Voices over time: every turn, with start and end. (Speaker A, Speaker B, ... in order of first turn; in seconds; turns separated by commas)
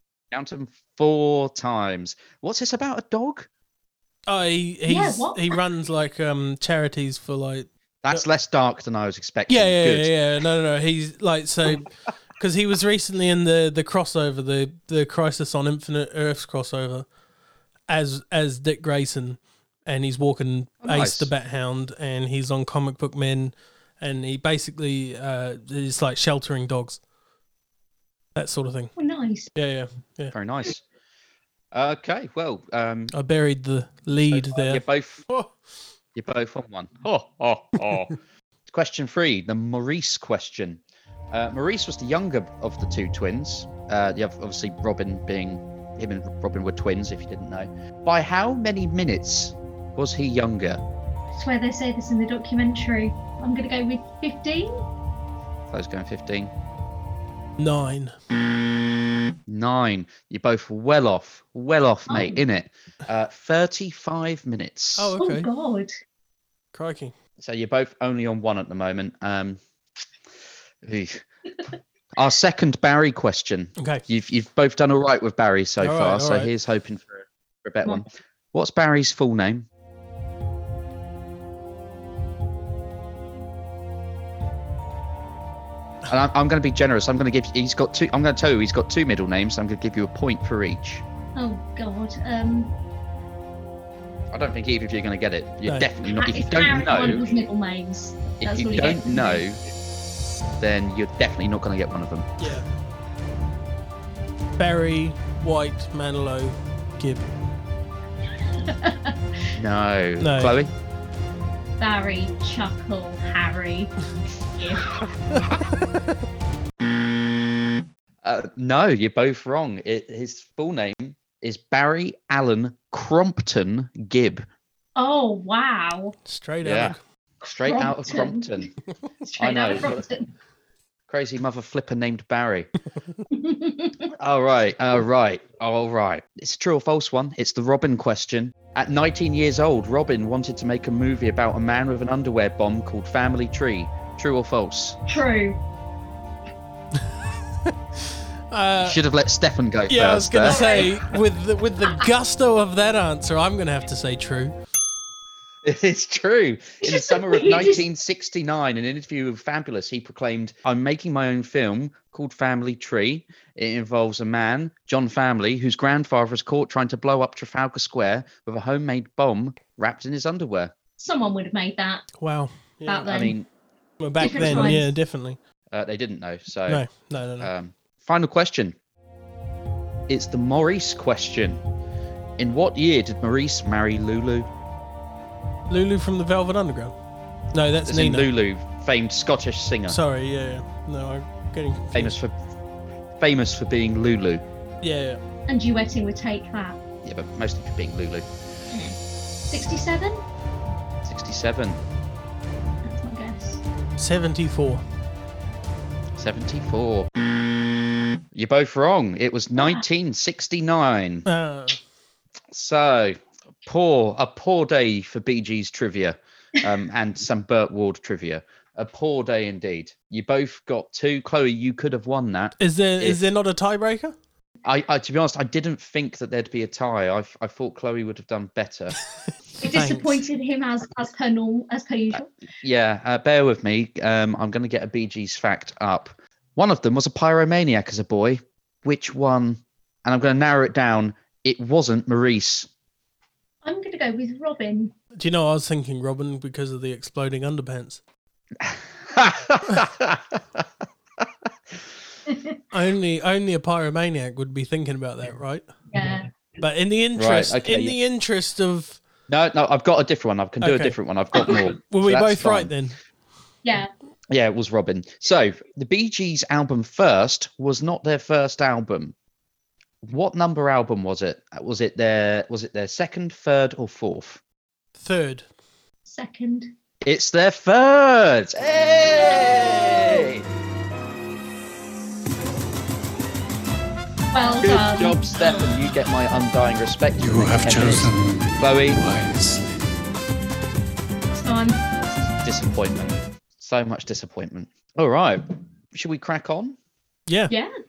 Speaker A: 0.3-3.5, Speaker B: 4.3-8.2, Speaker C: 4.9-5.5, Speaker A: 8.0-10.1, Speaker B: 9.5-11.9, Speaker B: 12.4-17.1, Speaker B: 17.9-27.0, Speaker A: 20.8-21.3, Speaker B: 28.4-28.9, Speaker C: 29.0-29.5, Speaker B: 29.6-30.3, Speaker A: 30.3-30.8, Speaker A: 31.7-33.1, Speaker B: 33.1-35.5, Speaker A: 34.3-35.3, Speaker A: 36.2-38.2, Speaker A: 38.7-50.8, Speaker C: 51.3-54.8, Speaker A: 55.7-56.5, Speaker B: 57.6-58.1, Speaker A: 59.5-65.1, Speaker C: 62.1-62.4, Speaker B: 65.0-65.5, Speaker C: 65.2-65.9, Speaker B: 66.7-67.1, Speaker A: 67.4-69.6, Speaker A: 70.8-71.2, Speaker A: 72.2-79.7, Speaker B: 73.8-74.0, Speaker B: 75.8-76.5, Speaker A: 86.1-91.0, Speaker C: 91.4-92.7, Speaker A: 94.3-97.3, Speaker C: 96.2-99.4, Speaker A: 98.4-99.6, Speaker A: 100.6-102.6, Speaker B: 102.4-102.7, Speaker B: 104.6-107.3, Speaker C: 108.5-109.2, Speaker A: 109.5-110.7, Speaker B: 110.2-110.5, Speaker C: 111.8-113.9, Speaker C: 114.5-114.9, Speaker A: 118.2-124.5, Speaker C: 125.0-126.2, Speaker B: 126.3-127.0, Speaker A: 126.6-128.7, Speaker C: 127.5-128.7, Speaker C: 129.2-130.3, Speaker A: 129.4-130.1, Speaker A: 131.1-132.7, Speaker C: 133.3-134.1, Speaker A: 134.2-145.0, Speaker C: 145.1-145.6, Speaker B: 148.5-149.0, Speaker A: 148.8-150.8, Speaker B: 149.9-154.6, Speaker C: 150.5-150.9, Speaker A: 155.6-170.7, Speaker C: 156.8-157.8, Speaker C: 171.0-172.1, Speaker B: 172.2-173.1, Speaker C: 172.9-173.4, Speaker A: 173.1-173.5, Speaker B: 174.0-175.4, Speaker C: 174.2-174.9, Speaker A: 174.2-174.8, Speaker A: 175.7-176.9, Speaker B: 176.7-177.5, Speaker A: 177.4-178.8, Speaker A: 180.1-181.6, Speaker A: 182.4-184.5, Speaker B: 185.7-186.9, Speaker B: 187.5-188.3, Speaker A: 187.9-190.0, Speaker B: 189.9-192.2, Speaker A: 191.9-192.3, Speaker A: 193.2-194.4, Speaker B: 194.8-195.2, Speaker C: 195.5-196.8, Speaker A: 197.0-198.3, Speaker C: 198.7-199.0, Speaker C: 199.5-200.2, Speaker A: 201.0-201.8, Speaker C: 202.8-203.6, Speaker B: 204.0-204.8, Speaker A: 206.2-207.1, Speaker A: 208.3-211.3, Speaker C: 209.6-209.8, Speaker B: 211.3-211.8, Speaker A: 212.5-223.2, Speaker B: 222.6-224.2, Speaker A: 224.7-229.0, Speaker B: 229.6-230.2, Speaker C: 229.6-232.3, Speaker A: 232.1-242.7, Speaker C: 243.6-244.9, Speaker B: 245.2-248.0, Speaker A: 248.6-250.6, Speaker C: 252.3-252.6, Speaker B: 252.7-255.7, Speaker C: 255.9-256.3, Speaker B: 256.6-259.0, Speaker A: 257.2-258.0, Speaker A: 259.3-262.7, Speaker B: 260.6-261.0, Speaker B: 261.8-263.0, Speaker C: 263.6-263.9, Speaker A: 264.3-269.1, Speaker A: 270.0-274.4, Speaker B: 275.0-275.4, Speaker C: 276.1-276.7, Speaker A: 277.0-280.4, Speaker C: 284.3-285.6, Speaker A: 284.6-289.6, Speaker C: 291.3-291.8, Speaker A: 292.4-296.8, Speaker B: 297.3-297.5